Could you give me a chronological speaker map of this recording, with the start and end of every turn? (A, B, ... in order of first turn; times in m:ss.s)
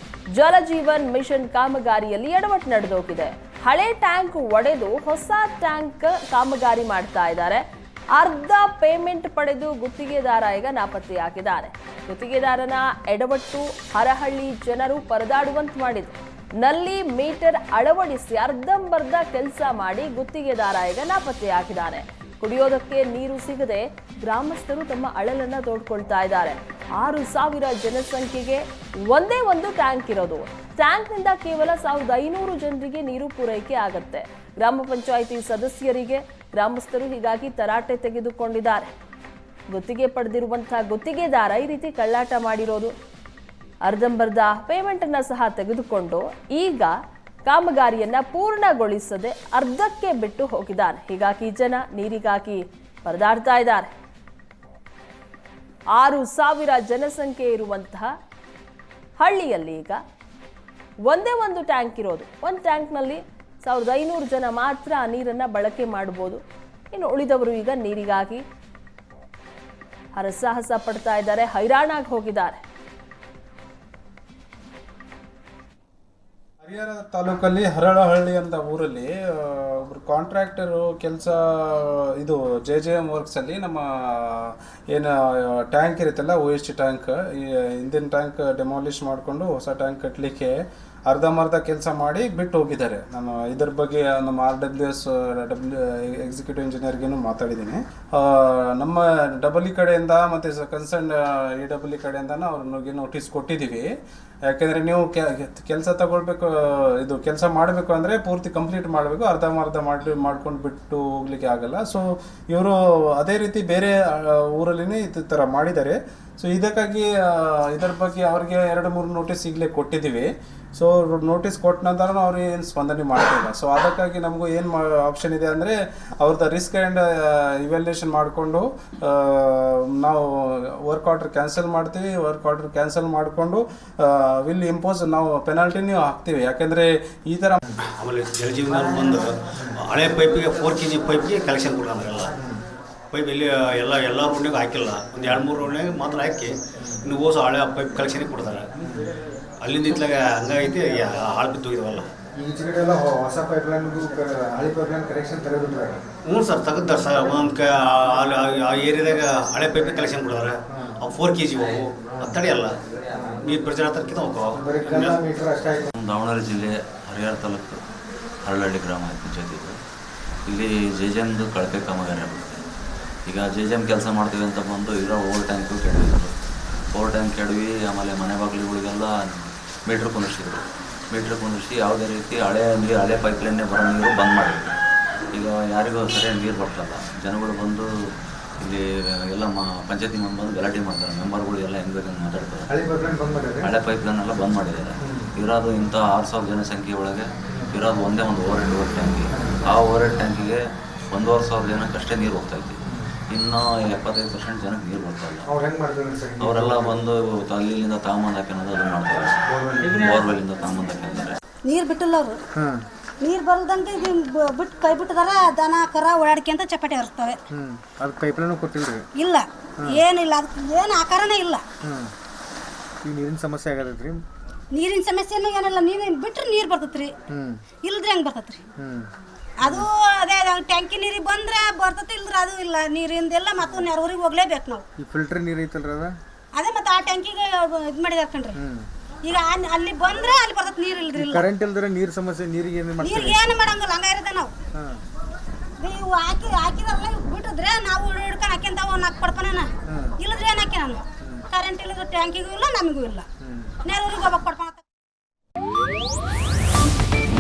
0:00.4-0:07.6 A
0:08.2-0:38.9 A
0:39.7-0:42.9 A
0:43.8-0:47.0 A
0:47.5-0:53.9 A
0:56.0-0:58.1 A
0:59.2-1:00.0 A
1:01.1-1:06.4 A
1:06.9-1:08.4 A
1:10.2-1:12.6 A
1:16.6-1:30.6 B
1:31.1-1:43.9 B
1:44.5-2:17.6 B
2:17.9-2:22.3 C
2:22.4-2:22.7 D
2:23.1-2:28.7 C
2:28.8-2:29.1 D
2:29.6-2:32.1 C
2:32.4-2:36.0 D
2:36.3-2:42.7 C
2:40.7-2:41.0 D
2:43.1-2:43.4 D
2:43.4-2:45.2 C
2:44.5-2:45.9 D
2:46.0-2:47.8 E
2:48.4-2:49.8 E
2:50.5-2:52.6 E
2:53.3-2:56.3 E
2:56.9-3:04.7 E
3:05.3-3:07.9 E
3:08.6-3:12.7 E
3:12.7-3:13.7 D
3:13.6-3:25.5 E
3:15.0-3:15.3 D
3:17.5-3:17.7 D
3:22.9-3:23.1 D
3:25.5-3:27.0 D
3:26.4-3:31.4 E
3:29.5-3:30.0 D
3:31.6-3:32.4 F
3:32.6-3:32.9 D
3:33.2-3:37.4 F
3:37.5-3:39.1 D
3:39.2-3:41.7 F
3:41.8-3:42.1 D
3:43.0-3:44.2 D
3:44.7-3:47.1 F
3:47.3-3:47.7 D
3:47.8-3:48.6 F
3:48.8-3:49.1 D
3:49.6-3:54.8 F
3:53.6-3:53.9 D
3:55.0-3:56.2 D
3:56.5-3:58.6 F
3:58.6-3:58.9 D
3:59.2-4:01.5 F
4:01.2-4:03.4 D
4:03.0-4:04.5 F
4:04.8-4:05.0 D
4:05.8-4:13.3 F
4:09.9-4:10.2 D
4:13.4-4:13.7 D
4:13.8-4:14.9 F